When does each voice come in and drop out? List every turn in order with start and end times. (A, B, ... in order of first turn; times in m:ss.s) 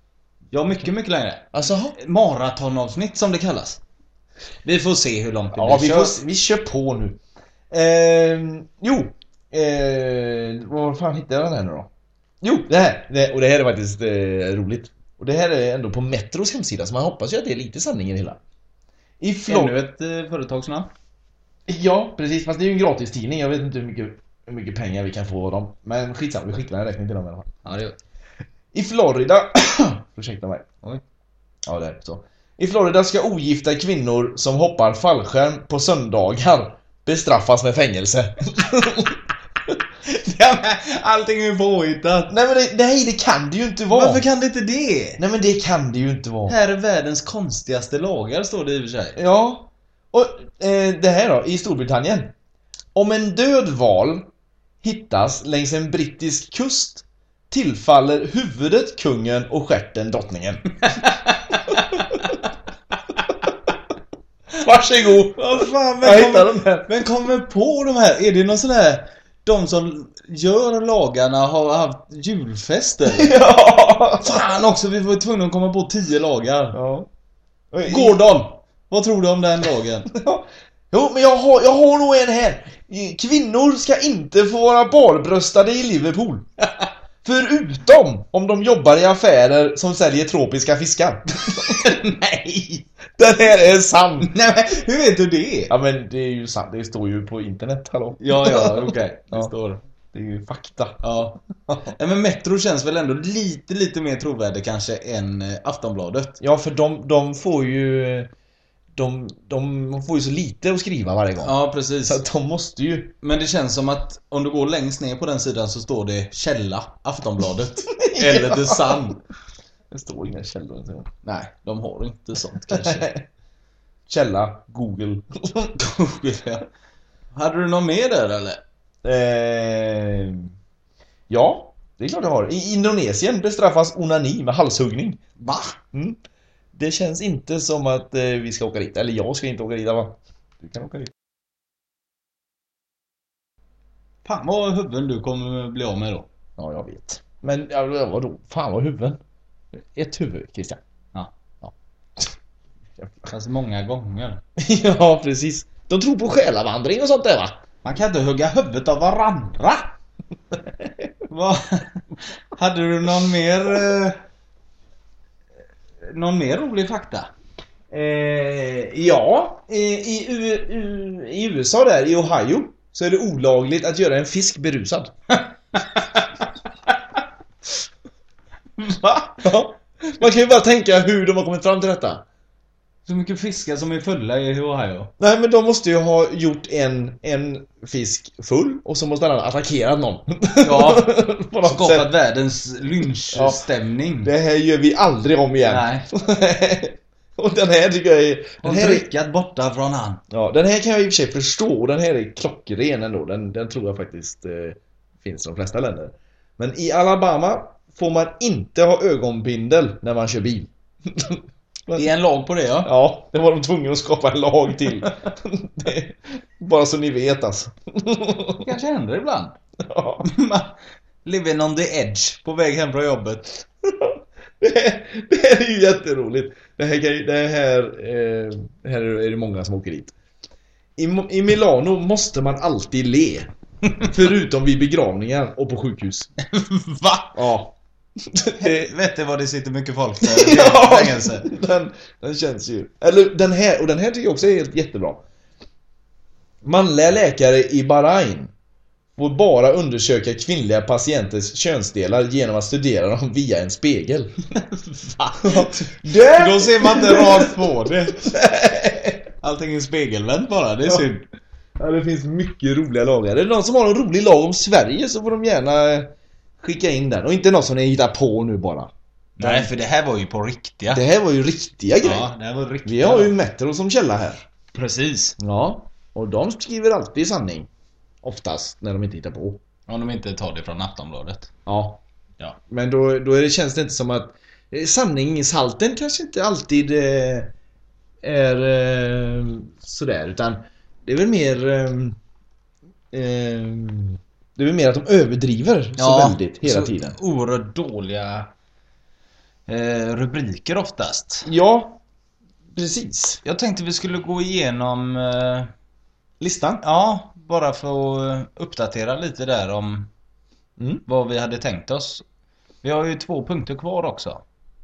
0:00.5-0:03.8 A
0:01.5-0:02.0 B
0:04.6-0:06.2 A
0:05.5-0:07.2 B
0:07.7-0:11.9 B
0:12.4-0:18.4 B
0:19.2-0:19.8 B
0:19.5-0:20.9 A
0:21.7-0:27.5 B
0:27.6-0:28.0 A
0:28.7-0:31.0 B
0:31.7-0:39.8 B
0:40.1-0:42.3 A
0:42.3-0:44.2 B
0:43.9-0:45.2 A
0:45.2-0:46.6 B
0:46.5-0:49.2 A
0:49.2-0:52.3 B
0:53.0-0:54.3 B
0:54.8-1:00.8 B
1:00.9-1:02.3 A
1:04.6-1:06.9 B
1:05.3-1:13.4 A
1:13.1-1:14.4 B
1:14.2-1:16.8 A
1:16.7-1:17.1 B
1:17.7-1:18.2 B
1:17.8-1:20.1 A
1:20.1-1:26.5 B
1:27.2-1:32.0 B
1:31.6-1:32.9 A
1:33.2-1:34.3 B
1:34.2-1:35.7 A
1:35.7-1:39.5 B
1:38.2-1:39.8 A
1:40.1-1:41.0 B
1:41.0-1:46.4 A
1:41.7-1:41.9 B
1:46.4-1:48.3 B
1:49.0-1:53.2 B
1:51.4-1:52.2 A
1:53.2-1:59.2 A
1:58.0-1:59.1 B
1:59.9-2:01.1 B
2:01.2-2:03.1 A
2:02.7-2:03.2 B
2:04.1-2:05.7 B
2:05.8-2:06.7 A
2:07.3-2:08.6 A
2:09.0-2:10.5 B
2:11.3-2:15.2 B
2:15.4-2:15.8 A
2:15.9-2:16.2 B
2:16.7-2:21.1 B
2:24.2-2:26.3 A
2:26.6-2:29.2 B
2:29.8-2:30.8 B
2:31.6-2:32.3 B
2:33.0-2:33.3 B
2:33.3-2:34.4 A
2:34.6-2:37.6 B
2:37.8-2:40.0 A
2:41.3-2:44.2 A
2:46.0-2:47.3 A
2:47.9-2:55.1 B
2:55.3-2:56.3 A
2:58.8-2:59.5 A
2:59.4-3:02.2 B
3:03.1-3:05.1 A
3:05.2-3:12.1 B
3:10.6-3:11.1 A
3:11.6-3:14.3 A
3:13.3-3:13.6 B
3:14.2-3:19.1 B
3:15.7-3:16.1 A
3:18.6-3:20.2 A
3:20.3-3:32.1 B
3:32.0-3:32.9 A
3:32.8-3:38.7 B
3:38.6-3:39.6 A
3:39.8-3:40.3 B
3:40.2-3:43.5 A
3:43.8-3:50.1 B
3:51.0-3:56.3 B
3:56.4-3:57.4 A
3:57.3-3:58.9 B
3:58.5-4:01.5 A
4:00.2-4:05.2 B
4:06.6-4:08.5 B
4:09.2-4:14.4 B
4:14.8-4:18.3 A
4:15.4-4:19.3 B
4:19.4-4:21.2 A
4:21.8-4:29.7 B
4:29.4-4:31.0 A
4:30.9-4:32.3 B
4:32.0-4:33.4 A
4:32.8-4:34.4 B
4:34.7-4:35.4 A
4:35.4-4:37.7 B
4:38.2-4:39.6 B
4:39.9-4:41.5 A
4:41.7-4:42.0 B
4:42.7-4:47.5 B
4:48.2-4:52.2 B
4:53.1-4:57.2 B
4:56.0-4:58.5 A
4:59.7-5:01.5 A
5:01.4-5:02.0 B
5:02.7-5:03.4 B
5:03.4-5:05.7 A
5:06.4-5:06.8 B
5:06.8-5:10.1 A
5:10.8-5:11.0 B
5:11.1-5:12.2 A
5:12.8-5:14.4 A